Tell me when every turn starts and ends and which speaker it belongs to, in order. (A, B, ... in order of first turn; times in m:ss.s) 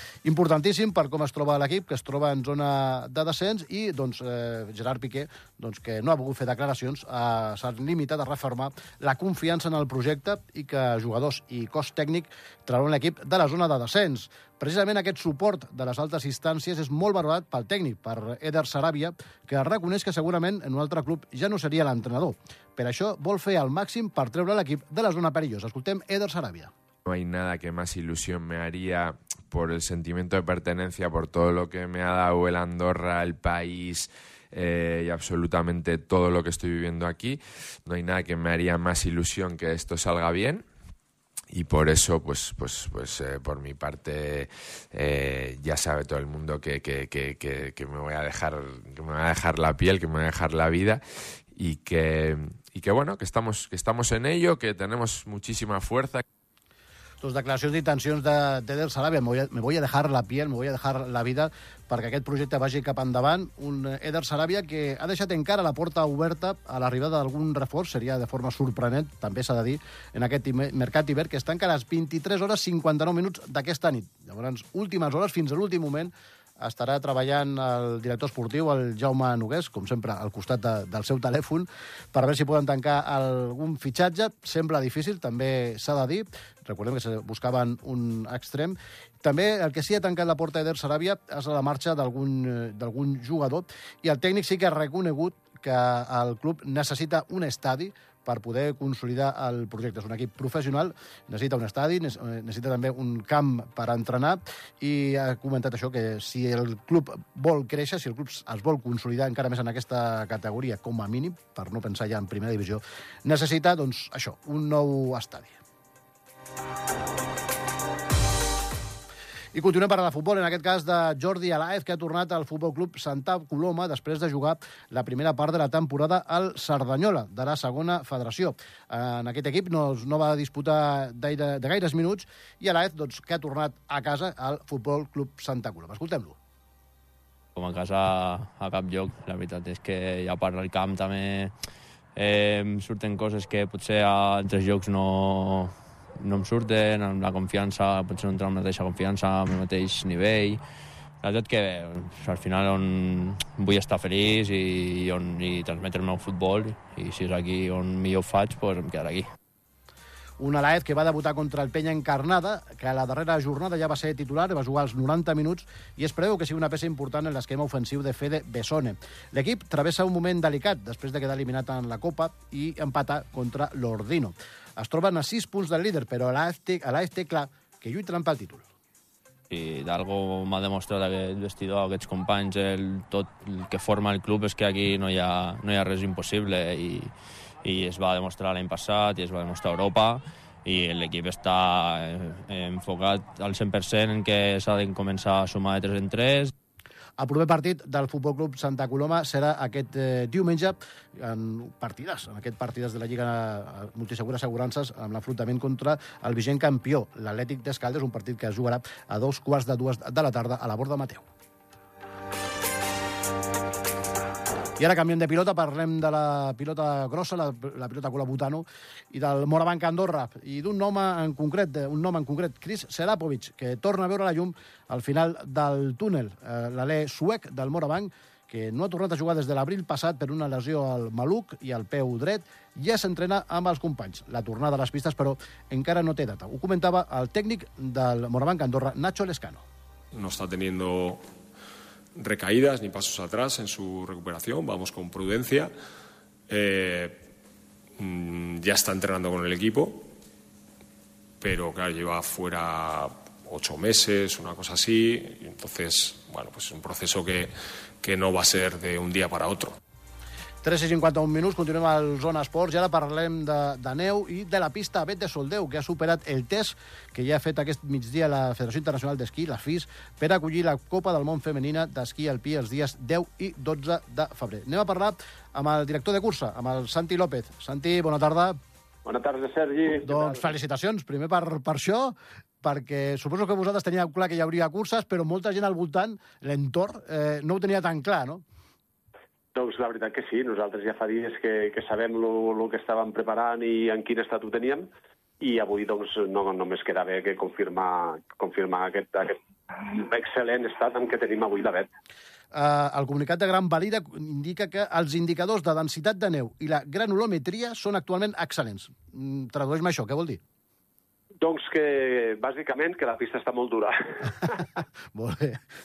0:00.2-0:26.7 A
0:27.0-0:40.7 B
0:41.5-0:56.2 B
0:57.2-1:55.6 A
1:59.5-2:16.4 A
2:17.6-2:21.5 C
2:22.2-2:30.6 C
2:31.2-2:39.3 C
2:40.4-2:58.7 A
2:59.5-3:07.1 C
3:07.6-3:16.5 C
3:17.2-3:31.3 A
3:34.8-3:59.6 A
4:00.1-4:01.2 D
4:02.2-4:05.7 D
4:06.5-4:07.2 D
4:08.0-4:10.1 D
4:11.4-4:19.8 D
4:20.6-4:38.6 A
4:39.1-4:40.5 E
4:40.0-4:48.4 A
4:49.6-4:54.9 E
4:55.4-5:01.9 E
5:02.5-5:10.4 A
5:11.4-5:14.5 E
5:15.1-5:15.6 A